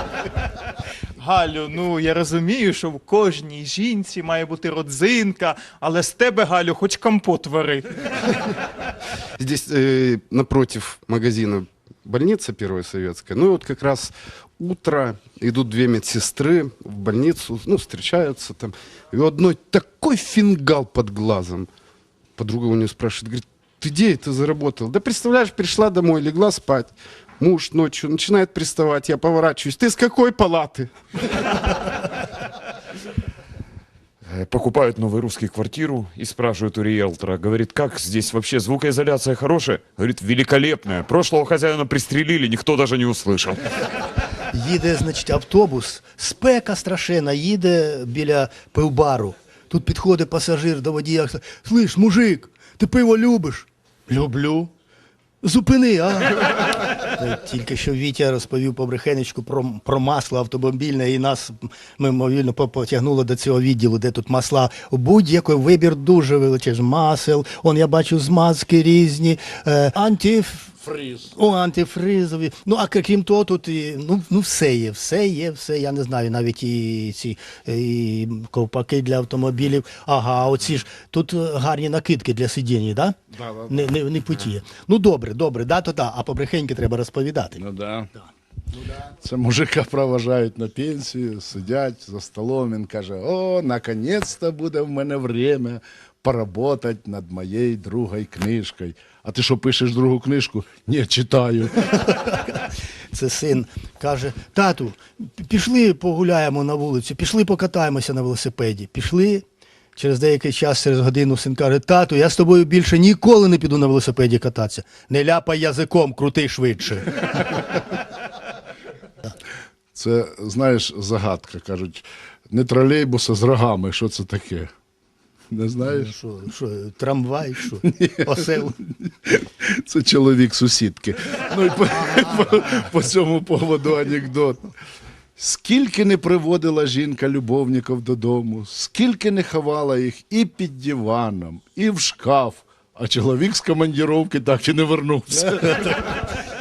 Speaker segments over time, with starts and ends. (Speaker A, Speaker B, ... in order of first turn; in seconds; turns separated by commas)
Speaker A: 1.2-7.9, Speaker B: 9.4-21.7, Speaker B: 22.4-30.9, Speaker C: 34.2-43.6, Speaker D: 44.5-54.7, Speaker D: 55.4-70.7, Speaker E: 70.8-71.3, Speaker D: 71.3-83.2, Speaker E: 83.3-83.9, Speaker D: 83.7-87.6, Speaker E: 87.6-88.1, Speaker E: 89.2-101.8, Speaker D: 101.9-109.4, Speaker D: 110.0-117.6, Speaker E: 119.9-124.7, Speaker E: 125.5-126.1, Speaker D: 125.8-128.8, Speaker E: 127.8-134.7, Speaker D: 131.9-132.8, Speaker E: 135.4-146.0, Speaker D: 145.8-146.1